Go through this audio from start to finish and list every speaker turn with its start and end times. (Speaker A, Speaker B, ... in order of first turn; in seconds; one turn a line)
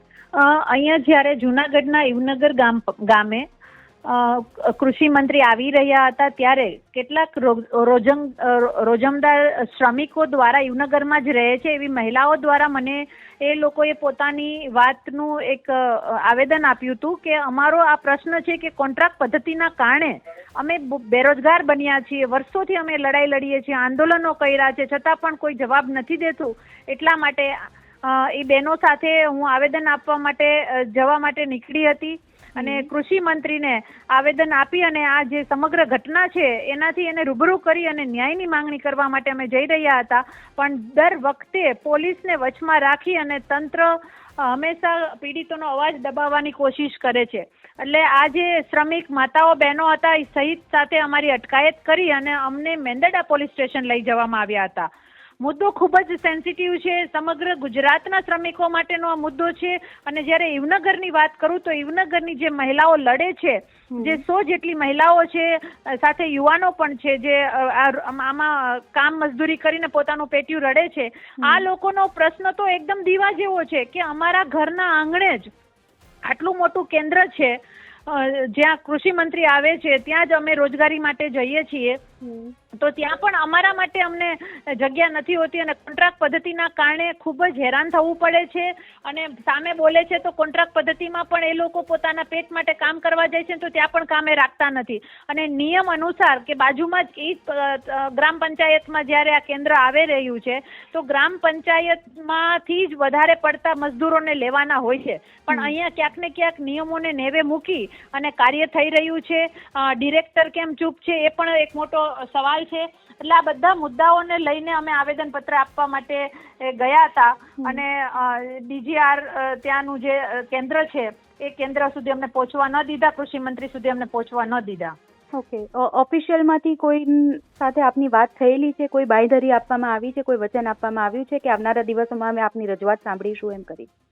Speaker A: 0.3-3.5
Speaker A: 4.1-54.9
Speaker B: 32.6-32.9
Speaker A: 55.4-75.5
Speaker B: 63.9-64.2
Speaker A: 76.2-77.6
Speaker A: 78.1-82.0
Speaker B: 82.2-82.5
Speaker A: 82.8-125.0
Speaker B: 125.4-133.9